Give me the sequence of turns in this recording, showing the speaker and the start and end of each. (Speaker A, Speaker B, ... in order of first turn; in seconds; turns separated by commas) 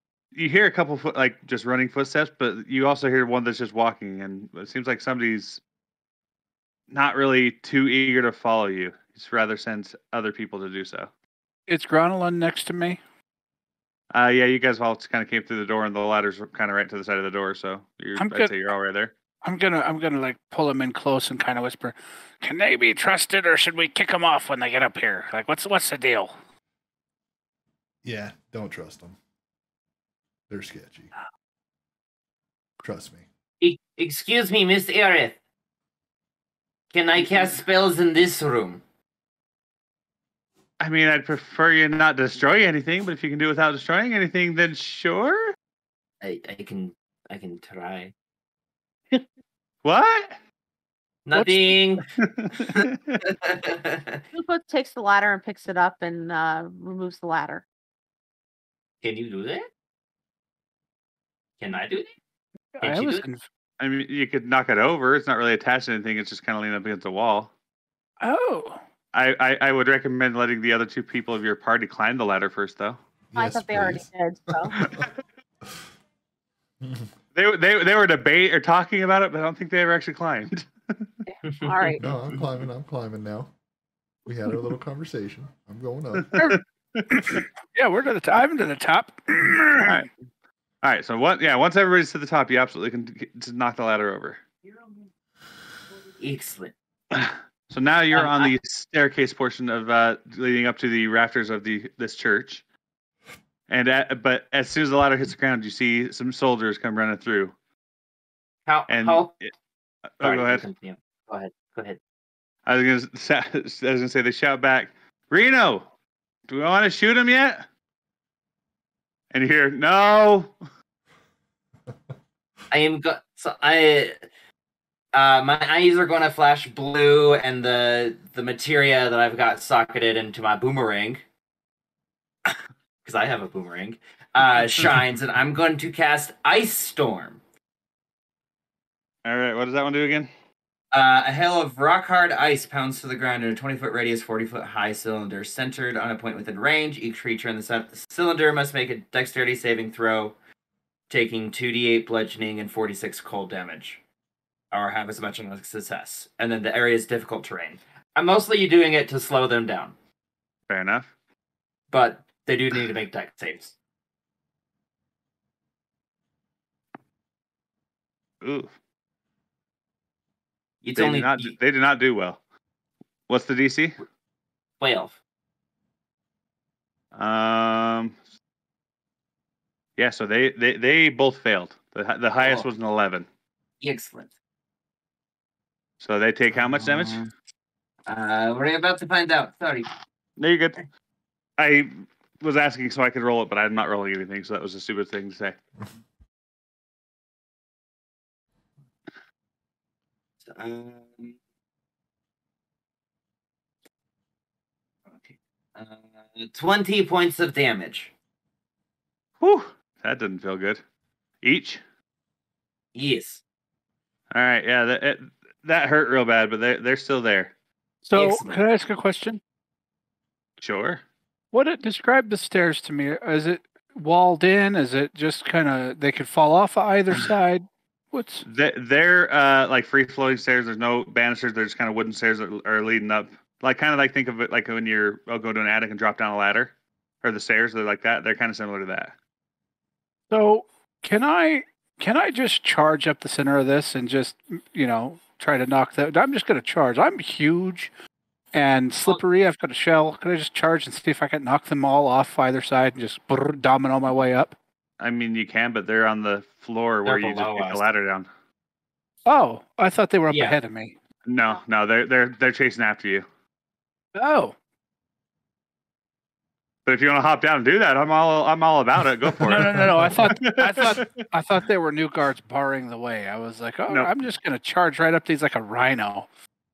Speaker A: 0.3-5.6, Speaker A: 6.9-11.1, Speaker B: 11.7-13.0, Speaker A: 14.1-19.1, Speaker B: 18.2-18.5, Speaker B: 19.4-26.3, Speaker C: 28.0-29.2, Speaker C: 30.5-31.1, Speaker C: 32.8-33.2, Speaker D: 33.6-35.4, Speaker D: 36.9-38.8, Speaker A: 40.8-45.5, Speaker D: 46.2-48.1, Speaker A: 49.8-50.4, Speaker D: 51.2-52.1, Speaker B: 51.4-51.7, Speaker A: 52.1-53.2, Speaker D: 52.7-54.2, Speaker E: 54.3-57.6, Speaker D: 59.0-59.7, Speaker D: 61.6-62.1, Speaker B: 62.8-63.4, Speaker D: 62.8-63.2, Speaker A: 63.8-67.5, Speaker B: 68.2-68.8, Speaker A: 69.1-73.0, Speaker C: 73.3-74.1, Speaker E: 73.3-74.8, Speaker C: 74.6-75.1, Speaker A: 74.8-75.1, Speaker C: 76.8-77.1, Speaker A: 77.3-81.2, Speaker D: 81.4-81.9, Speaker E: 81.6-82.0, Speaker C: 82.0-83.5, Speaker C: 84.2-86.5, Speaker A: 86.1-87.4, Speaker B: 87.1-90.0, Speaker A: 89.8-90.1, Speaker A: 90.8-94.4, Speaker D: 96.2-96.7, Speaker A: 97.1-102.6, Speaker D: 98.1-98.5, Speaker A: 103.7-107.5, Speaker D: 108.7-109.3, Speaker A: 108.9-109.5, Speaker A: 110.2-110.6, Speaker D: 110.2-112.0, Speaker A: 112.7-115.9, Speaker A: 116.5-117.6, Speaker A: 119.3-120.5, Speaker D: 122.7-124.2, Speaker D: 125.1-131.2, Speaker D: 133.0-137.4, Speaker B: 134.5-134.8, Speaker A: 139.2-140.3, Speaker D: 140.9-150.3, Speaker D: 151.1-154.0, Speaker D: 154.7-159.9, Speaker A: 160.7-161.1, Speaker D: 161.9-163.7, Speaker A: 168.4-168.7, Speaker D: 170.8-171.5, Speaker A: 170.9-172.4, Speaker A: 173.3-174.0, Speaker D: 174.8-175.2, Speaker A: 177.1-178.2, Speaker A: 180.0-183.3, Speaker D: 182.4-182.7, Speaker D: 183.8-184.3, Speaker A: 186.0-187.2, Speaker D: 186.8-187.3, Speaker D: 188.1-189.9, Speaker A: 190.4-190.8, Speaker A: 191.6-195.6, Speaker D: 200.4-201.3, Speaker D: 205.2-208.1, Speaker A: 209.4-210.8, Speaker A: 211.4-211.8, Speaker D: 212.9-213.4, Speaker A: 214.3-217.5, Speaker B: 218.0-219.4, Speaker D: 218.2-218.6, Speaker A: 220.6-221.0, Speaker B: 221.5-228.4, Speaker A: 228.4-239.1, Speaker B: 240.3-247.9, Speaker B: 248.5-254.6, Speaker A: 255.0-258.3, Speaker D: 257.0-257.9, Speaker B: 259.2-260.9, Speaker D: 260.3-260.6, Speaker A: 261.2-263.2, Speaker B: 264.1-264.5, Speaker A: 266.9-271.1, Speaker B: 269.4-276.3